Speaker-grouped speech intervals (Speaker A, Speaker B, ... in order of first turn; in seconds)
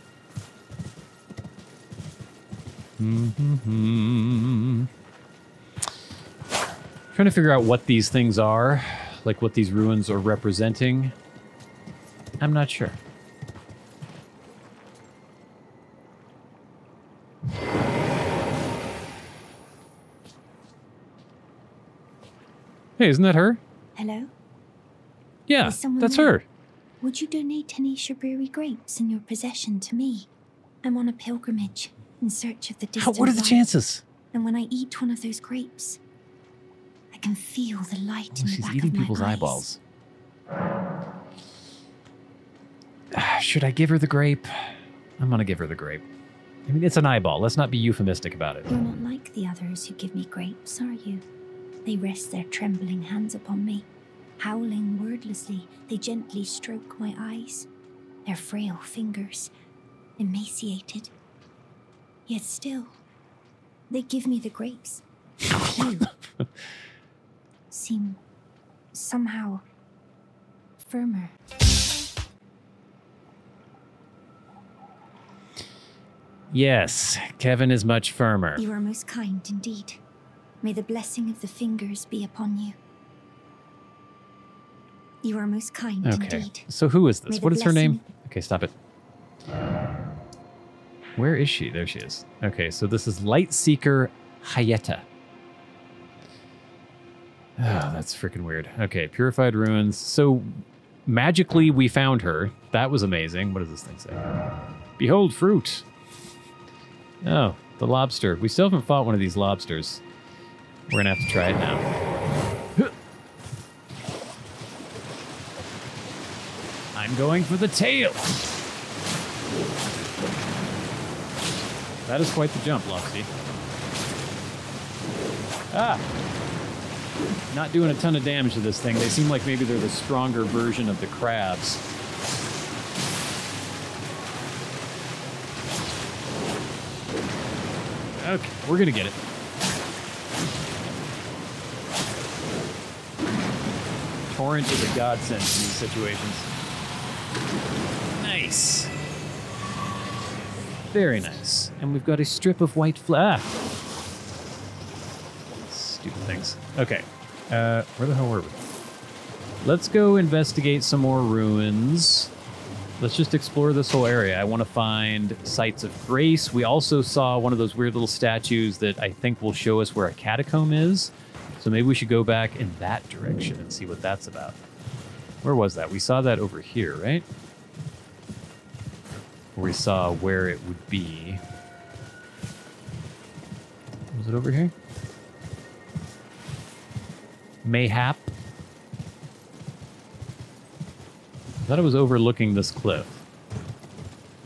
Speaker A: 3.0-4.9, 7.1-11.1, 12.4-13.0, 23.0-23.6, 25.5-26.4, 33.0-34.0, 38.3-39.8, 43.1-46.0, 46.7-48.7, 65.5-66.0, 76.5-78.6, 86.0-88.8, 91.2-95.1, 97.6-104.2, 105.0-105.8, 107.2-110.0, 110.9-111.8, 116.9-118.3, 122.0-123.3, 125.7-126.0, 127.5-131.8, 138.2-139.2, 144.3-146.5, 148.2-148.9, 150.9-153.6, 155.5-158.6, 159.6-162.3, 163.0-174.6, 175.4-177.2, 179.6-181.4, 184.1-184.7, 187.6-188.2, 191.6-193.2
Speaker B: 24.0-24.3, 25.6-26.4, 27.0-30.3, 30.8-33.6, 34.3-36.0, 37.1-39.6, 48.7-51.2, 51.9-53.9, 54.4-57.7, 58.3-59.5, 60.2-61.1, 62.3-63.0, 63.9-65.0, 65.6-66.1, 67.7-68.2, 68.9-69.6, 70.8-71.4, 78.6-80.0, 80.6-82.8, 85.2-86.7, 87.3-88.0